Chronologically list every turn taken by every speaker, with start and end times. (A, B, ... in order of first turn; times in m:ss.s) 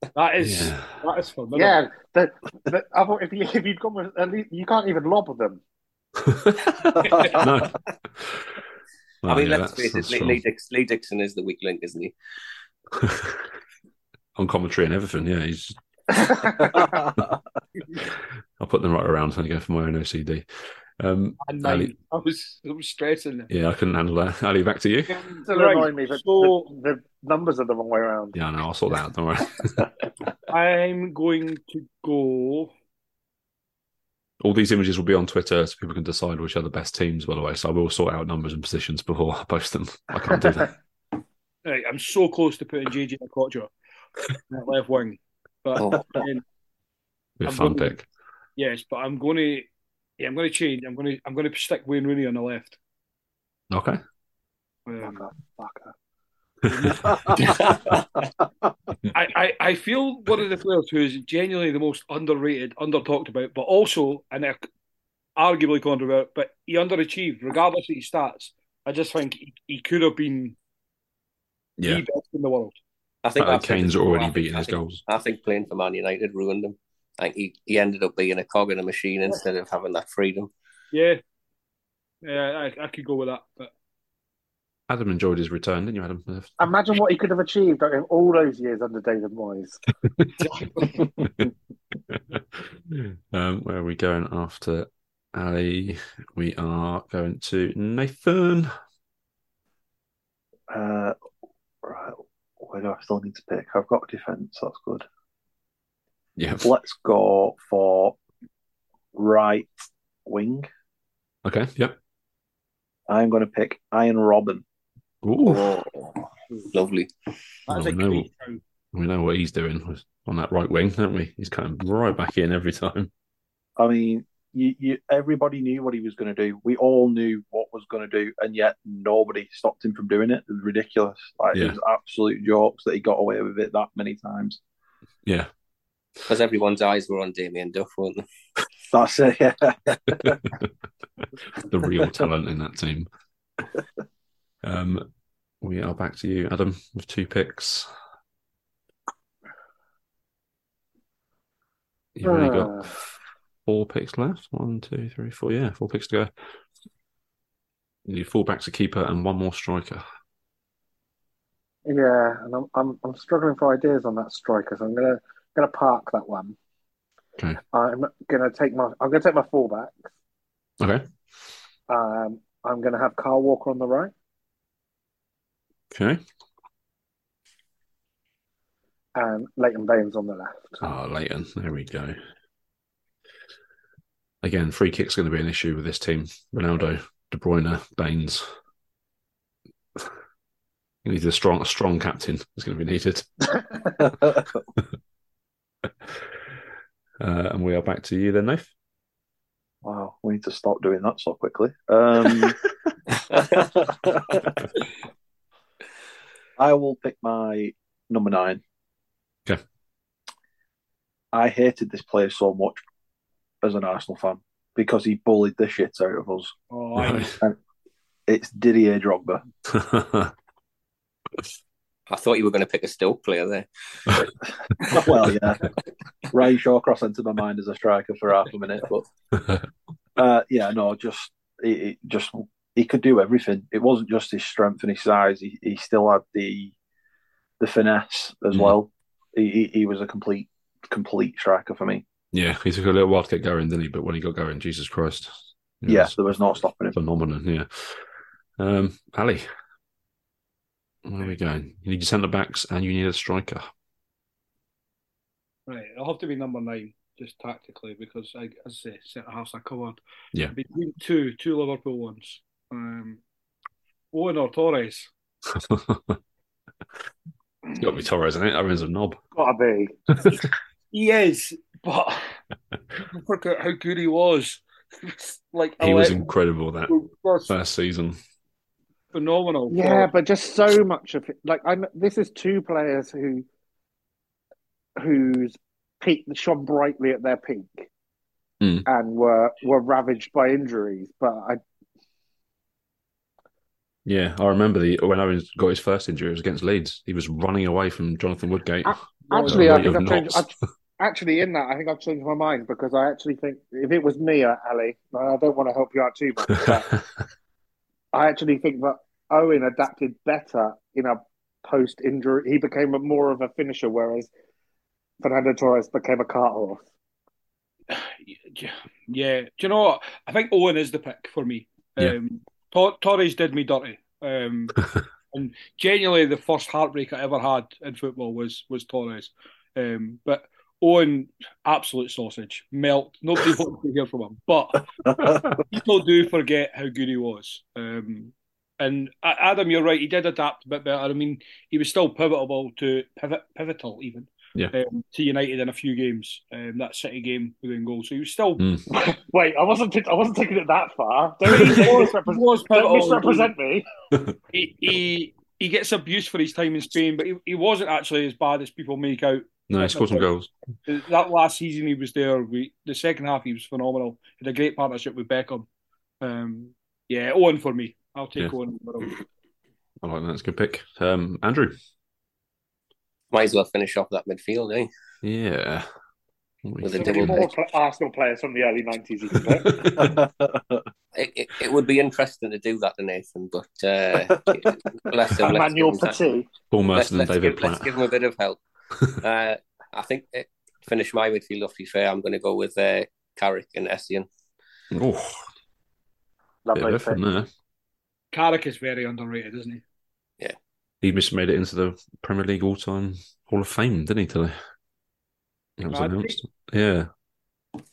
0:00.2-0:01.8 A
0:00.4-0:01.0 B
0:01.6-0:05.6 C
0:06.2-0:08.5 B
0:07.0-0:07.4 A
0:09.2-0:10.4 B
0:09.3-0:12.1 D
0:12.9-0:13.5 B
0:14.4-0:15.8 B
0:16.1-0:17.0 C
0:16.8-0:17.4 E
0:18.0-0:20.4 B
0:21.0-0:21.9 B
0:21.4-0:23.5 A
0:23.5-0:25.2 B
0:25.1-0:26.7 A
0:25.5-0:28.4 C
0:28.3-0:29.9 B
0:30.5-0:32.7 A
0:34.4-0:40.7 B
0:41.6-0:43.7 A
0:44.5-0:46.4 A
0:47.4-0:48.1 B
0:47.5-0:47.9 A
0:48.6-0:49.7 A
0:50.2-0:52.8 A
0:53.7-0:54.0 B
0:54.9-0:55.3 A
0:55.0-0:55.9 C
0:56.7-0:57.6 A
0:56.7-0:57.6 B
0:57.1-0:57.4 E
0:57.4-0:57.9 D
0:59.1-1:04.7 A
1:05.4-1:10.6 A
1:11.8-1:12.0 B
1:11.8-1:12.8 A
1:13.2-1:20.5 D
1:13.4-1:15.0 B
1:20.9-1:21.2 A
1:22.2-1:23.7 A
1:24.9-1:26.6 B
1:26.6-1:29.8 C
1:30.0-1:30.3 B
1:30.4-1:31.0 A
1:31.2-1:31.5 B
1:32.1-1:38.7 B
1:40.7-1:41.2 E
1:41.8-1:45.1 E
1:46.4-1:46.7 B
1:46.6-1:48.2 E
1:49.1-1:49.7 E
1:50.2-1:50.7 E
1:51.4-1:52.0 B
1:53.1-1:54.6 E
1:55.2-1:55.8 B
1:55.4-1:57.1 D
1:57.7-1:58.6 A
1:57.7-1:58.3 B
1:58.9-2:03.1 B
2:03.8-2:14.6 E
2:16.3-2:18.2 D
2:18.9-2:20.4 E
2:20.2-2:20.7 B
2:21.6-2:23.1 B
2:24.6-2:25.1 B
2:25.6-2:27.9 B
2:32.2-2:33.1 B
2:32.2-2:32.9 C
2:33.7-2:36.3 B
2:38.1-2:40.0 B
2:41.9-2:46.6 C
2:47.7-2:50.1 C
2:50.8-2:51.1 B
2:51.9-2:54.1 C
2:55.9-2:56.2 B
2:59.2-3:00.8 C
3:00.8-3:02.2 B
3:04.4-3:08.5 B
3:11.0-3:13.6 B
3:14.0-3:14.4 E
3:17.2-3:18.7 B
3:19.8-3:22.6 E
3:23.4-3:24.6 E
3:26.6-3:28.6 E
3:31.3-3:32.8 E
3:33.6-3:36.5 E
3:36.7-3:37.4 A
3:37.0-3:37.4 B
3:38.3-3:39.4 E
3:39.7-3:40.3 B
3:42.1-3:44.2 D
3:44.9-3:45.7 E
3:46.3-3:49.1 E
3:50.2-3:56.7 E
3:57.6-4:02.0 E
4:02.3-4:06.2 B
4:05.9-4:07.0 E
4:06.9-4:08.0 B
4:08.6-4:09.5 B
4:11.0-4:13.7 B
4:15.7-4:20.0 A
4:20.5-4:23.2 A
4:24.1-4:25.1 A
4:25.5-4:26.2 B
4:27.8-4:29.2 B
4:29.4-4:30.0 C
4:30.2-4:30.5 B
4:30.9-4:32.4 A
4:33.1-4:36.3 A
4:35.8-4:36.9 B
4:36.9-4:37.5 A
4:37.5-4:38.2 B
4:39.1-4:40.1 A
4:39.7-4:43.5 C
4:45.0-4:47.9 C
4:48.6-4:48.9 B
4:48.9-4:51.6 C
4:54.1-5:00.5 B
4:58.9-5:06.9 C
4:59.3-4:59.9 A
5:06.5-5:07.0 B
5:08.1-5:14.3 C
5:15.2-5:16.9 C
5:17.9-5:24.8 A
5:25.3-5:48.6 A
5:35.1-5:35.4 E
5:48.6-5:48.9 B
5:48.9-5:53.9 C
5:51.5-5:53.5 A
5:54.5-6:00.3 A
5:59.7-6:00.5 B
6:00.9-6:05.7 A
6:06.2-6:09.2 A
6:10.0-6:11.8 B
6:13.3-6:14.9 D
6:15.2-6:15.9 B
6:16.6-6:17.4 B
6:16.8-6:17.5 D
6:17.0-6:19.7 C
6:19.4-6:20.2 B
6:19.9-6:20.8 E
6:21.2-6:26.2 D
6:25.4-6:26.5 C
6:26.7-6:27.9 B
6:27.0-6:28.6 D
6:29.2-6:34.3 D
6:34.9-6:35.4 B
6:36.7-6:37.2 C
6:36.8-6:37.5 B
6:38.3-6:39.8 A
6:41.0-6:44.6 B
6:45.8-6:47.1 B
6:45.9-6:46.4 A